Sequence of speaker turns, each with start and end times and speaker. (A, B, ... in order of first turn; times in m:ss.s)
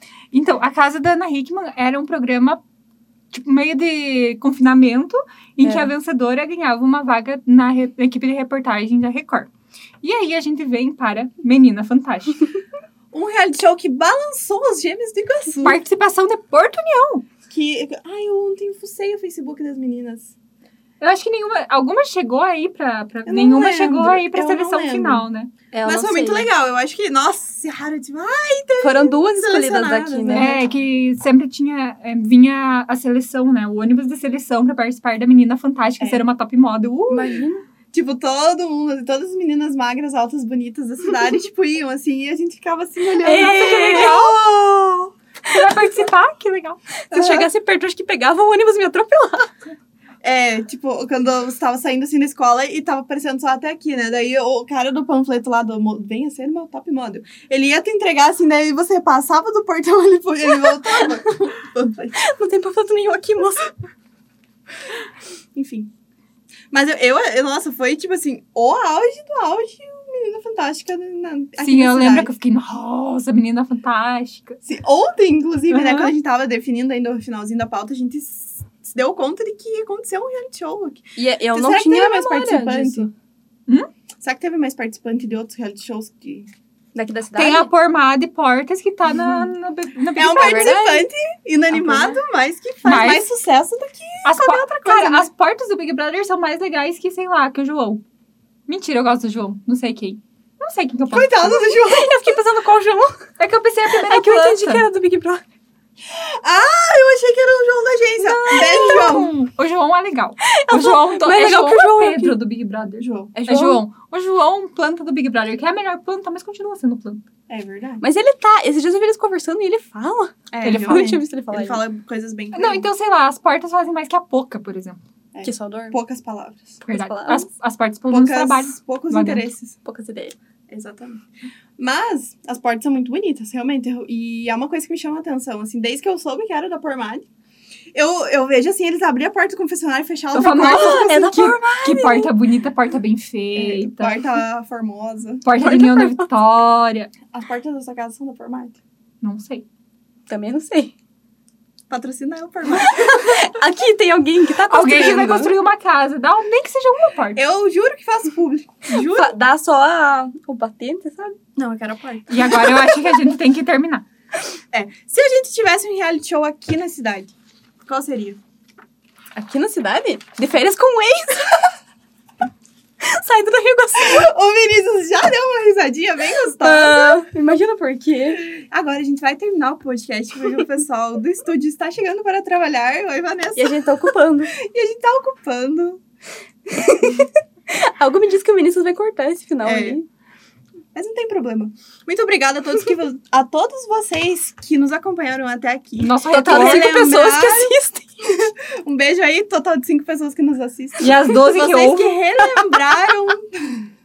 0:00.3-0:02.6 A
0:03.3-0:09.5 A
0:05.6-0:05.9 B
0:10.0-0:12.4 A
0:13.1-0:15.8 C
0:15.6-0:17.3 A
0:17.5-0:20.3 C
0:21.0-0:25.5 A
0:23.3-0:25.2 C
0:25.7-0:26.5 B
0:25.8-0:30.6 C
0:28.8-0:30.6 B
0:30.3-0:37.4 A
0:36.0-0:36.3 C
0:37.1-0:37.6 B
0:37.9-0:45.1 C
0:43.2-0:44.3 B
0:43.3-0:44.4 A
0:45.4-0:46.8 A
0:47.1-0:49.5 B
0:47.1-0:47.5 C
0:50.2-1:02.2 C
1:00.7-1:01.0 B
1:02.2-1:03.7 B
1:05.6-1:05.9 C
1:06.7-1:12.3 C
1:11.6-1:14.6 A
1:14.7-1:23.1 C
1:15.7-1:16.1 A
1:21.2-1:23.1 B
1:24.2-1:26.5 C
1:27.0-1:27.7 B
1:27.4-1:31.0 A
1:30.2-1:35.3 C
1:30.4-1:31.0 B
1:31.7-1:32.2 B
1:32.8-1:33.3 A
1:34.2-1:38.0 A
1:38.7-1:41.7 A
1:41.1-1:42.3 C
1:41.7-1:43.3 B
1:43.4-1:44.9 A
1:44.0-1:45.4 B
1:46.1-1:49.5 C
1:48.2-1:49.3 B
1:48.5-1:57.2 A
1:50.5-1:52.4 B
1:53.0-1:53.3 C
1:53.3-1:53.8 B
1:57.5-1:58.0 C
1:58.0-2:01.8 B
2:00.5-2:02.9 C
2:00.6-2:01.1 A
2:02.5-2:05.0 A
2:05.3-2:06.8 C
2:05.4-2:06.0 B
2:06.8-2:07.5 B
2:06.9-2:09.4 A
2:08.1-2:09.8 C
2:09.8-2:10.4 B
2:10.7-2:11.2 C
2:11.8-2:17.3 C
2:17.9-2:21.4 C
2:20.3-2:24.3 A
2:20.5-2:22.3 B
2:23.6-2:25.7 C
2:25.4-2:27.1 A
2:25.6-2:26.3 B
2:27.3-2:28.8 C
2:29.2-2:29.6 A
2:30.3-2:30.9 B
2:31.9-2:33.4 C
2:32.7-2:35.6 B
2:34.7-2:37.4 A
2:37.4-2:39.3 C
2:38.9-2:41.4 B
2:41.6-2:42.6 C
2:42.3-2:44.0 A
2:44.7-2:47.4 C
2:47.9-2:48.4 C
2:49.4-2:51.7 B
2:53.0-2:54.3 B
2:54.0-2:57.3 C
2:56.6-2:58.4 B
2:58.3-3:06.0 C
3:03.6-3:04.5 B
3:06.7-3:10.0 B
3:09.6-3:10.0 C
3:11.0-3:17.8 C
3:16.0-3:17.1 A
3:16.3-3:18.4 B
3:18.8-3:23.9 C
3:21.0-3:22.2 A